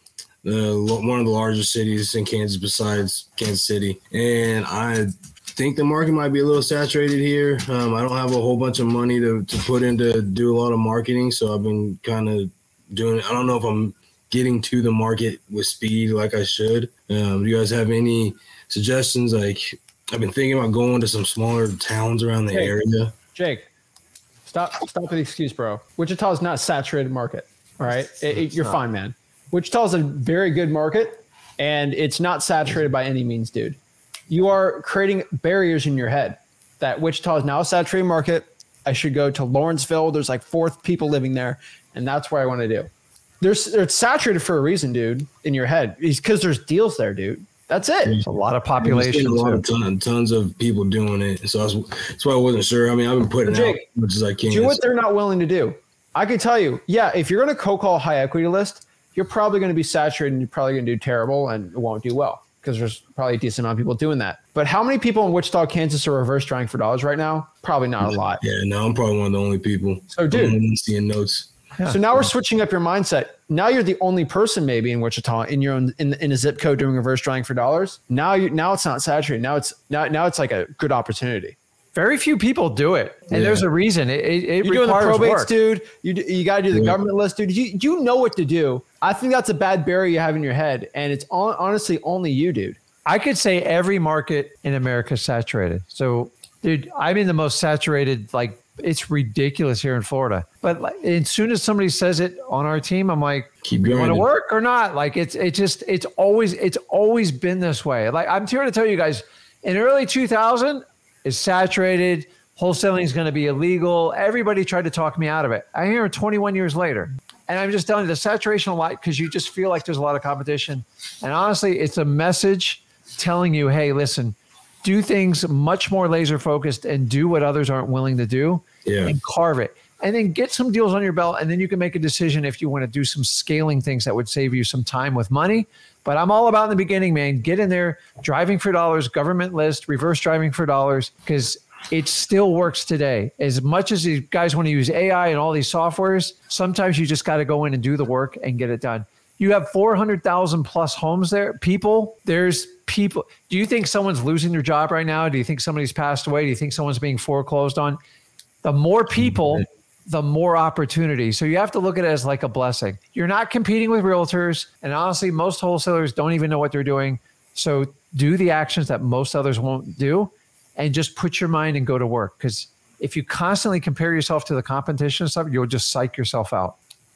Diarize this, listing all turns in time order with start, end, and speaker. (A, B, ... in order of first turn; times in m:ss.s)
0:00.4-0:23.2 A
0:22.5-0:23.7 B
0:24.4-0:33.8 B
0:34.3-0:42.9 B
0:43.4-0:48.2 B
0:48.2-0:49.6 C
0:48.8-0:54.8 A
0:53.4-0:53.8 B
0:54.5-1:08.4 B
1:08.4-1:11.5 A
1:10.1-1:10.6 B
1:11.8-1:21.5 B
1:21.9-1:25.5 C
1:23.3-1:23.6 A
1:24.6-1:32.8 B
1:26.7-1:27.0 A
1:33.0-2:38.0 C
1:43.6-1:44.2 A
2:08.8-2:09.1 A
2:38.6-2:56.8 C